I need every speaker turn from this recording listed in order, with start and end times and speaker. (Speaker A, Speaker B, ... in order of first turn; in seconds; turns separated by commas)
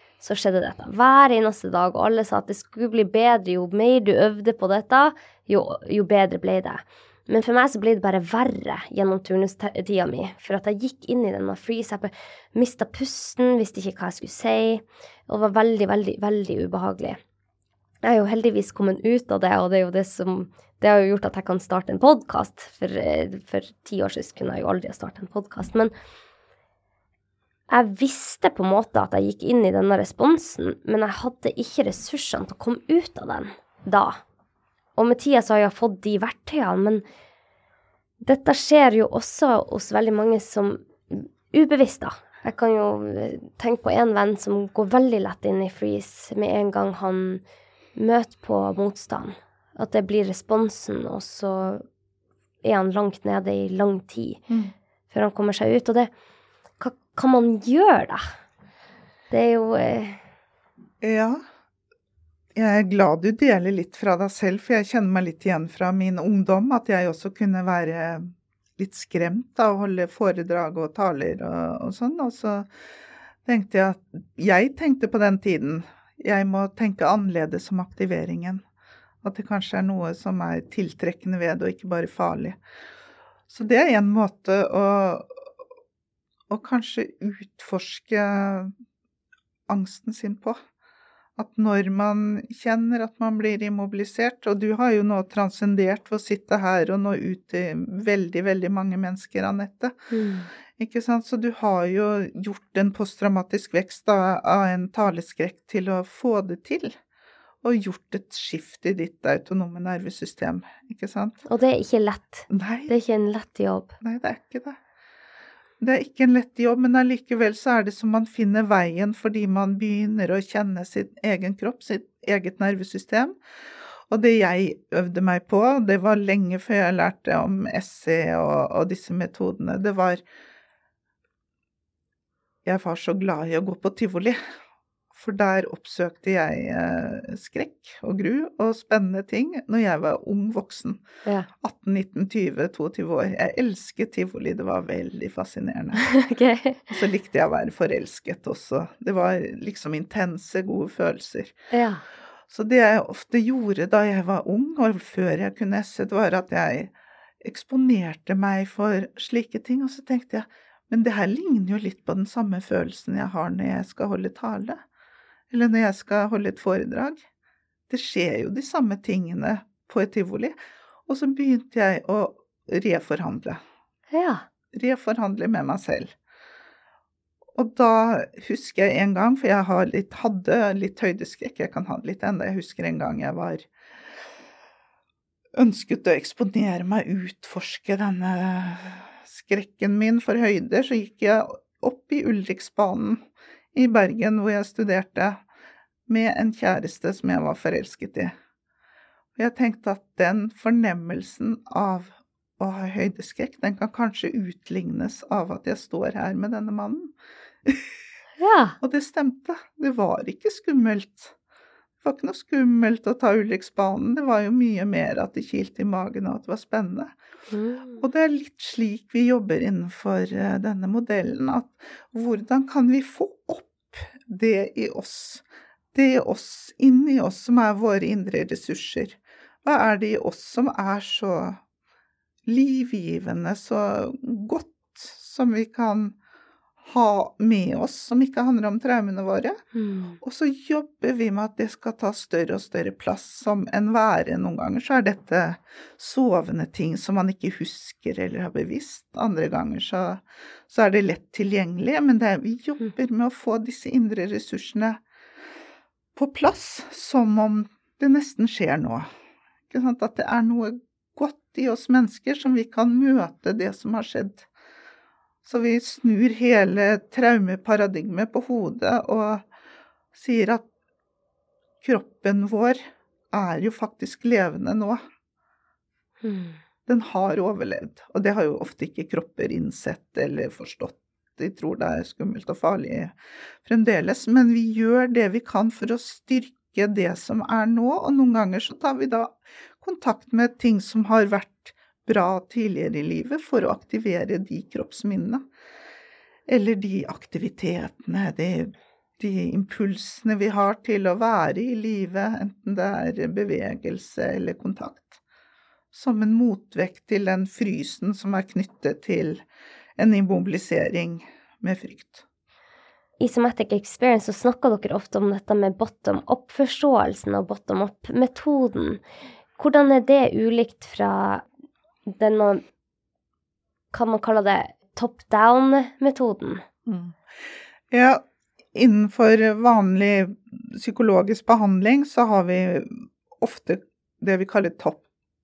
Speaker A: 0.2-17.2, Speaker A: 18.0-25.9, Speaker A: 27.7-34.2, Speaker A: 35.0-37.0, Speaker A: 38.2-47.4, Speaker A: 48.0-51.8, Speaker A: 52.6-54.4, Speaker B: 54.5-54.7, Speaker A: 55.1-56.1, Speaker A: 56.8-58.2, Speaker A: 59.3-60.2, Speaker B: 61.0-61.4, Speaker B: 62.5-72.7, Speaker B: 73.5-78.6, Speaker B: 79.2-82.6, Speaker B: 83.5-85.4, Speaker B: 86.5-88.7, Speaker B: 89.7-90.6, Speaker B: 91.4-100.0, Speaker A: 100.1-100.5, Speaker B: 100.8-107.0, Speaker B: 107.6-111.4, Speaker A: 111.5-114.0, Speaker B: 112.5-112.9, Speaker B: 114.0-114.8, Speaker B: 115.8-123.4, Speaker B: 124.1-130.2, Speaker B: 132.7-134.4, Speaker B: 135.1-141.0, Speaker B: 141.6-146.0, Speaker A: 146.0-146.9, Speaker B: 146.9-151.5, Speaker A: 151.7-152.1, Speaker B: 152.5-164.8, Speaker B: 165.5-167.2, Speaker B: 167.9-173.6, Speaker A: 174.1-174.4, Speaker B: 174.7-176.1, Speaker B: 177.5-183.7, Speaker B: 185.6-193.2, Speaker B: 193.7-195.4, Speaker B: 196.1-198.3, Speaker B: 199.4-207.1, Speaker B: 207.7-207.9, Speaker A: 208.4-208.8, Speaker B: 208.8-211.3, Speaker B: 212.0-217.2, Speaker A: 217.5-218.0, Speaker B: 218.0-231.6, Speaker B: 232.5-236.2, Speaker B: 236.8-239.6, Speaker A: 239.8-240.2, Speaker B: 240.2-255.0, Speaker B: 256.2-259.1, Speaker B: 259.7-264.5, Speaker B: 265.4-269.5, Speaker B: 270.1-270.7, Speaker B: 271.8-275.0, Speaker A: 276.2-276.6, Speaker B: 276.9-295.4, Speaker B: 296.5-305.2, Speaker B: 305.9-309.4, Speaker B: 310.0-312.2, Speaker A: 313.2-319.0, Speaker A: 319.6-321.4, Speaker A: 322.1-322.6, Speaker A: 323.9-326.6, Speaker B: 326.9-327.2, Speaker B: 327.9-328.2, Speaker B: 328.7-335.0